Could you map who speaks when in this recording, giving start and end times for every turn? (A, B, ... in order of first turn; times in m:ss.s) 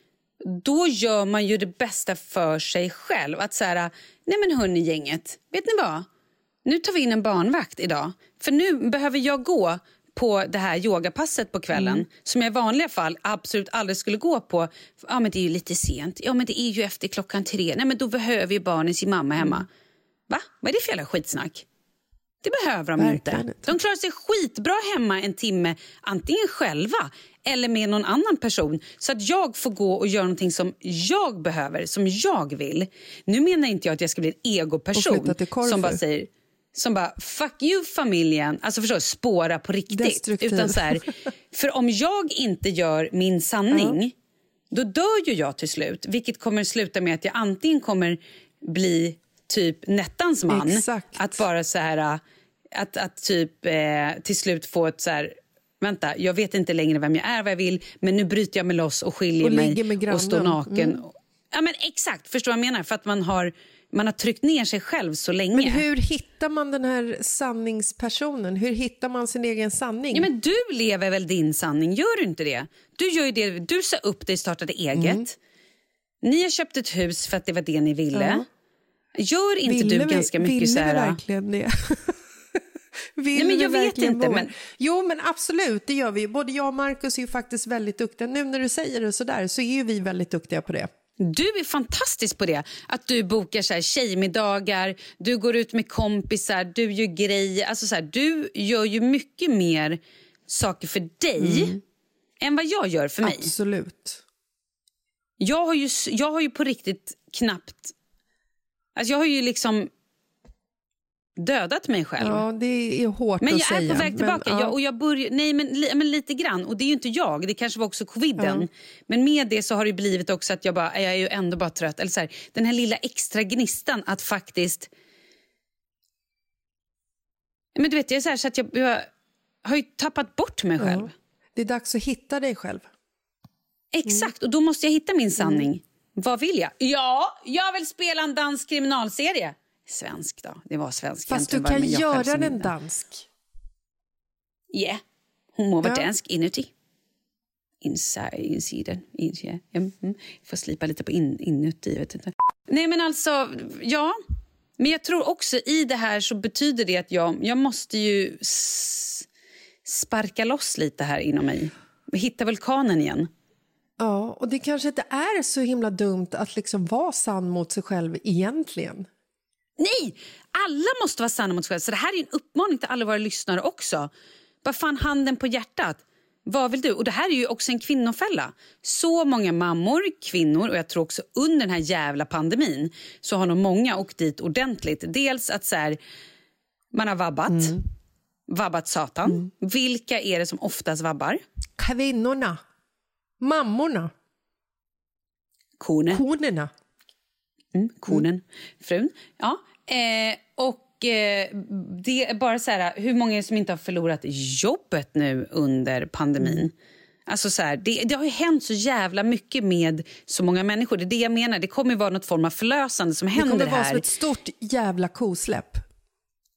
0:00.4-0:06.0 A
0:06.6-0:19.7 A
0:11.7-0:12.0 B
0:19.4-0:19.6 B
0:20.3-0:21.6 A
0:22.4-0:44.1 A
0:23.0-0:23.7 B
0:34.9-0:36.0 B
0:39.9-0:41.1 B
0:43.7-0:44.0 B
0:44.7-0:52.2 A
0:50.5-0:51.4 B
0:52.7-1:05.8 A
0:59.4-1:01.0 B
1:05.5-1:10.3 B
1:10.1-1:15.4 A
1:14.9-1:15.3 B
1:16.2-1:18.4 A
1:18.1-1:18.5 B
1:19.2-1:21.2 A
1:19.6-1:22.6 B
1:23.2-1:30.9 B
1:23.3-1:24.5 A
1:31.2-1:41.8 A
1:41.4-1:41.8 B
1:42.4-1:43.5 A
1:43.2-1:44.2 B
1:45.4-1:47.9 A
1:49.0-1:49.9 A
1:51.4-1:52.4 A
1:52.2-1:54.8 B
1:53.4-2:04.9 A
1:58.4-1:58.7 B
2:07.8-2:09.1 A
2:09.6-2:11.1 A
2:10.8-2:12.9 B
2:13.9-2:22.7 A
2:14.0-2:14.3 B
2:15.4-2:15.7 B
2:21.3-2:23.3 B
2:24.7-2:25.0 A
2:25.6-2:26.7 A
2:25.8-2:26.1 B
2:27.8-2:34.2 A
2:34.8-2:39.3 A
2:39.8-2:43.3 A
2:44.0-2:49.1 B
2:49.8-2:54.1 A
2:54.6-3:06.0 A
3:06.9-3:07.8 A
3:07.5-3:07.8 B
3:08.5-3:11.4 A
3:11.8-3:12.6 B
3:13.4-3:14.1 B
3:15.8-3:16.2 A
3:16.1-3:16.7 B
3:17.7-3:26.7 A
3:26.4-3:26.7 B
3:27.3-3:34.0 A
3:33.3-3:35.8 B